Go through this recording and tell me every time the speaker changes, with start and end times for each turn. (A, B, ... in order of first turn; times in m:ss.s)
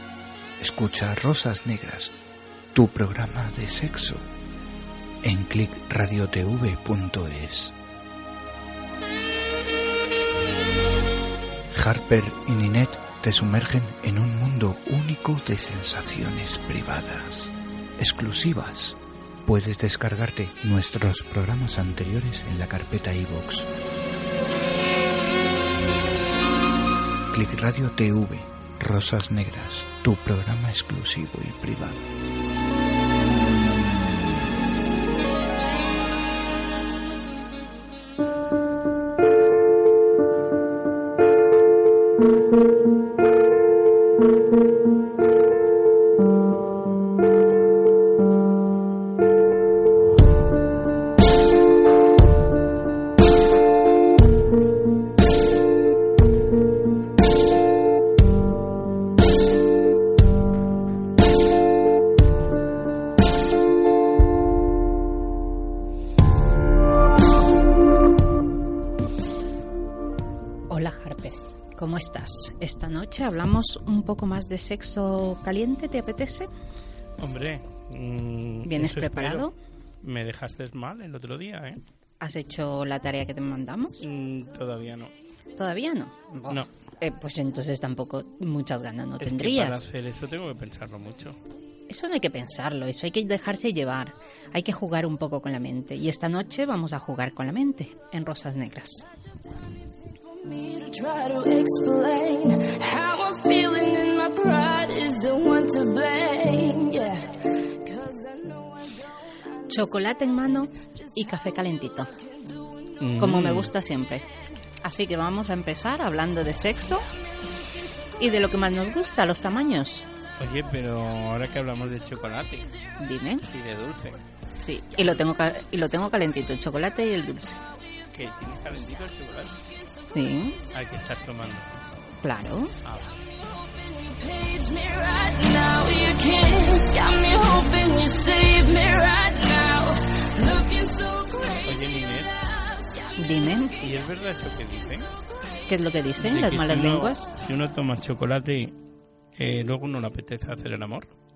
0:00.6-0:02.1 A
0:02.7-0:04.2 A
0:05.2-0:07.7 A
0:11.7-0:23.7 A
0:27.3-0:32.0 A
1:10.7-1:16.5 B
1:17.2-1:19.5 C
1:18.6-1:19.5 B
1:20.0-1:21.8 C
1:22.2-1:24.0 B
1:24.0-1:25.1 C
1:25.6-1:29.8 B
1:29.2-1:31.4 C
1:31.9-1:39.0 B
1:40.3-1:49.1 D
1:49.7-1:52.1 B
1:52.2-1:53.0 D
1:53.0-1:53.7 C
1:53.2-1:54.2 B
1:54.8-1:57.1 B
1:58.2-2:00.0 B
2:00.4-2:02.7 C
2:03.0-2:03.4 B
2:03.5-2:04.2 C
2:04.6-2:07.6 B
2:08.1-2:09.5 C
2:10.1-2:10.6 B
2:10.7-2:11.8 C
2:12.2-2:12.7 B
2:12.8-2:13.2 C
2:13.2-2:23.9 D
2:21.6-2:22.3 C
2:23.2-2:23.8 B
2:23.8-2:25.1 C
2:25.1-2:25.5 D
2:25.7-2:27.3 B
2:26.2-2:28.7 C
2:29.4-2:31.1 C